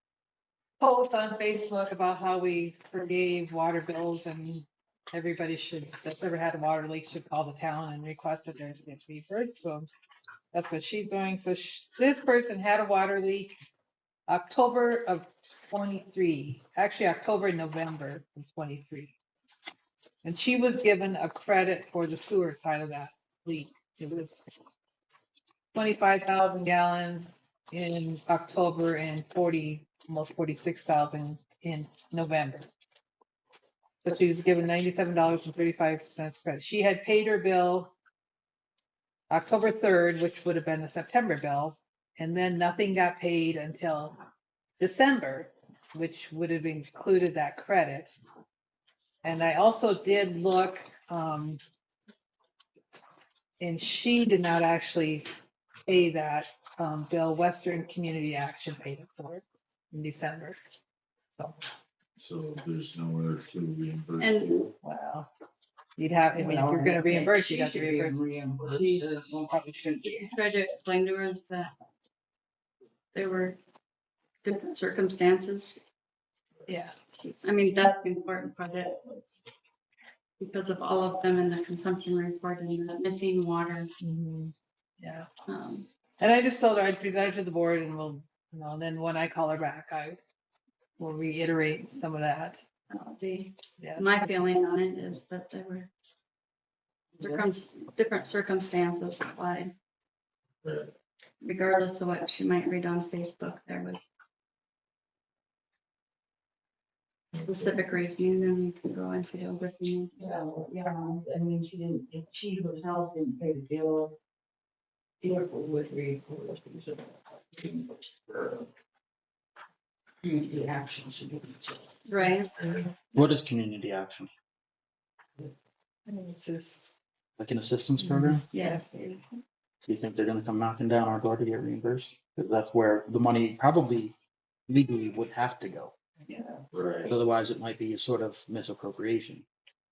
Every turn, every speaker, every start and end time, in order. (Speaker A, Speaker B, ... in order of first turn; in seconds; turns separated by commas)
Speaker A: 0.8-9.9, Speaker A: 10.5-13.5, Speaker A: 14.3-19.1, Speaker A: 20.2-24.4, Speaker A: 25.7-32.7, Speaker A: 34.0-37.9, Speaker A: 39.3-44.2, Speaker A: 44.8-48.2, Speaker A: 49.2-51.6, Speaker A: 53.6-55.3, Speaker A: 55.9-60.6, Speaker A: 61.3-61.6, Speaker B: 62.2-64.7, Speaker C: 64.2-64.5, Speaker A: 64.8-65.3, Speaker A: 66.0-70.3, Speaker D: 66.3-70.2, Speaker C: 70.2-71.7, Speaker C: 73.1-73.6, Speaker C: 74.4-75.8, Speaker A: 76.7-76.9, Speaker C: 77.2-79.4, Speaker C: 80.4-83.9, Speaker A: 84.0-85.3, Speaker C: 85.5-85.9, Speaker A: 86.2-90.2, Speaker A: 91.0-92.6, Speaker C: 92.9-95.9, Speaker A: 93.8-94.5, Speaker C: 97.2-99.7, Speaker B: 100.6-100.9, Speaker C: 101.4-104.0, Speaker C: 107.3-110.2, Speaker B: 107.3-107.8, Speaker D: 110.2-114.1, Speaker D: 115.2-117.0, Speaker D: 117.6-118.7, Speaker D: 120.2-121.9, Speaker C: 122.1-122.5, Speaker E: 123.1-124.3, Speaker A: 126.1-127.0, Speaker E: 127.4-128.4, Speaker A: 128.0-129.2, Speaker C: 128.5-129.2, Speaker E: 129.8-134.2, Speaker E: 134.7-135.9, Speaker B: 136.7-137.1, Speaker E: 137.1-139.5